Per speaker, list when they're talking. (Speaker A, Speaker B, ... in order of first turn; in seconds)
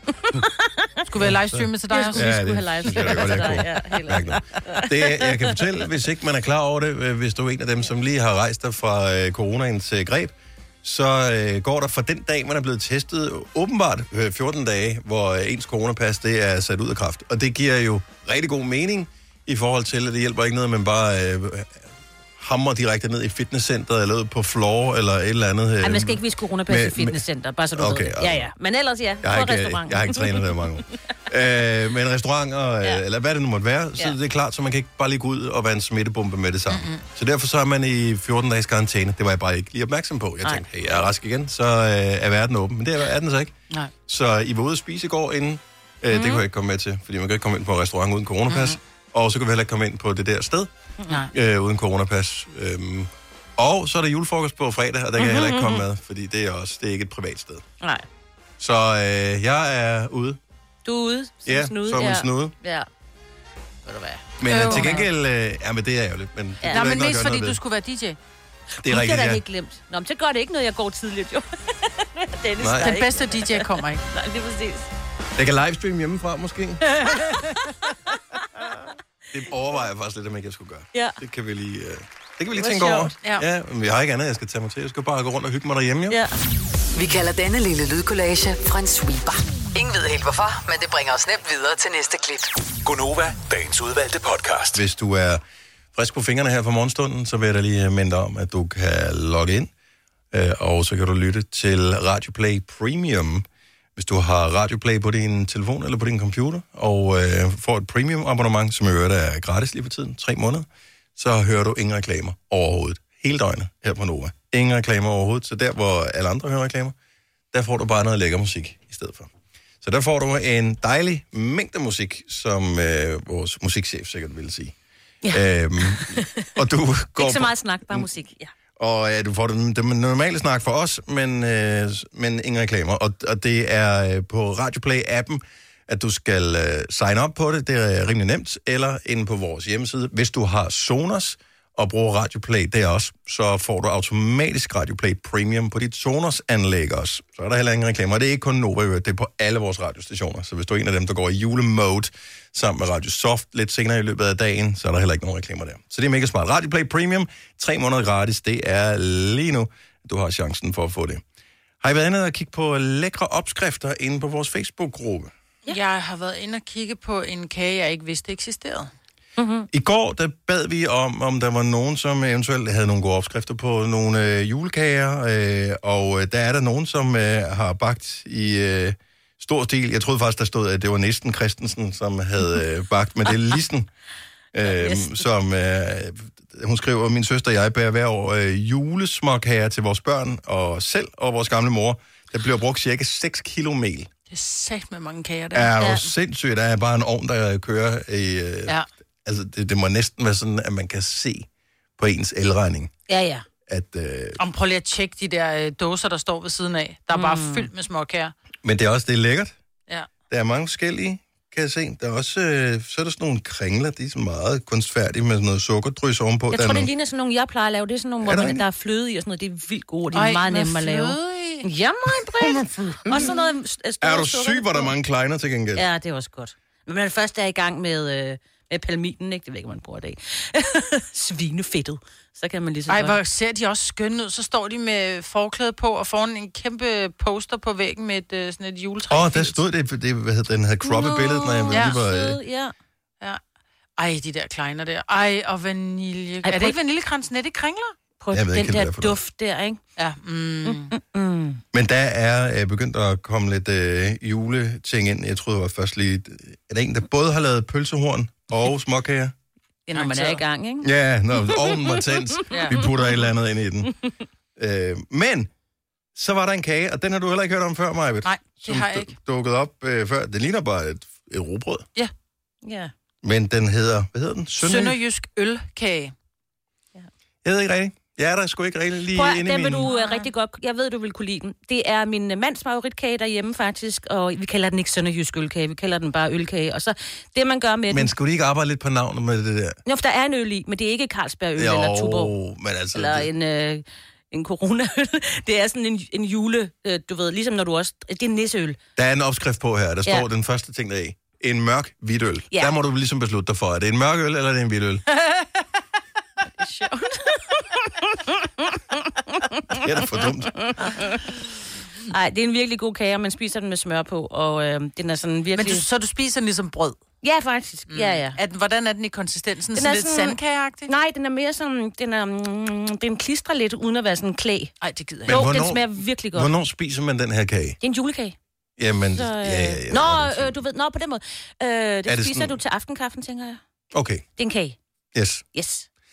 Speaker A: 0.1-0.9, 1.9-5.5, 25.8-30.4, 46.1-46.4, 55.2-55.8, 57.8-58.0, 60.8-62.9, 63.9-65.1, 68.8-74.9, 82.6-83.1, 125.2-126.5, 127.2-128.5, 169.4-169.7, 184.6-185.2, 195.8-196.1, 203.1-203.4, 207.1-207.7, 216.5-224.9, 225.7-233.2, 240.8-242.7, 246.4-246.8, 248.2-249.8, 250.6-251.6, 259.9-260.9, 261.6-261.9, 272.6-272.9, 279.1-288.1, 289.9-292.3, 292.9-298.8, 306.6-309.7, 310.7-311.2, 312.1-315.8, 317.2-318.4, 319.8-324.7, 325.2-326.5, 327.8-328.4, 329.1-333.6, 334.4-334.8, 335.5-335.9
Speaker B: 1.1-2.3, 2.9-3.5, 36.7-37.0, 48.5-48.8, 64.5-65.0, 66.7-68.2, 72.8-74.0, 165.7-168.9, 194.3-195.8, 204.4-208.3, 220.1-221.7, 232.9-239.6, 241.7-241.9, 244.0-247.9, 250.0-250.9, 259.9-260.4, 262.5-262.8, 268.2-269.1, 274.6-276.1, 279.9-280.3, 315.5-317.0, 317.9-320.9, 324.8-325.5
Speaker C: 1.2-21.9, 22.4-27.2, 27.7-28.4, 29.2-43.5, 44.1-50.7, 51.3-57.6, 58.6-60.4, 61.5-62.5, 64.4-67.6, 68.8-69.4, 72.6-72.9, 75.3-77.0, 79.3-86.2, 94.7-95.4, 95.9-99.7, 100.3-103.4, 104.0-116.9, 117.5-119.3, 119.8-124.7, 125.3-128.1, 128.8-161.2, 161.8-165.3, 169.7-183.9, 184.5-194.1, 195.5-201.5, 202.0-202.9, 203.7-204.4, 208.6-209.5, 210.3-216.9, 218.2-218.6, 222.4-223.3, 224.0-225.8, 239.1-242.4, 248.3-249.2, 251.7-259.3, 260.8-263.9, 264.6-265.5, 266.1-271.9, 273.2-275.0, 277.4-279.9, 287.9-289.8, 291.6-293.3, 298.9-305.0, 309.7-310.5, 325.3-327.8, 328.8-330.5, 332.1-332.6, 333.9-334.2, 335.1-335.4
Speaker D: 86.9-92.5
Speaker E: 92.8-94.8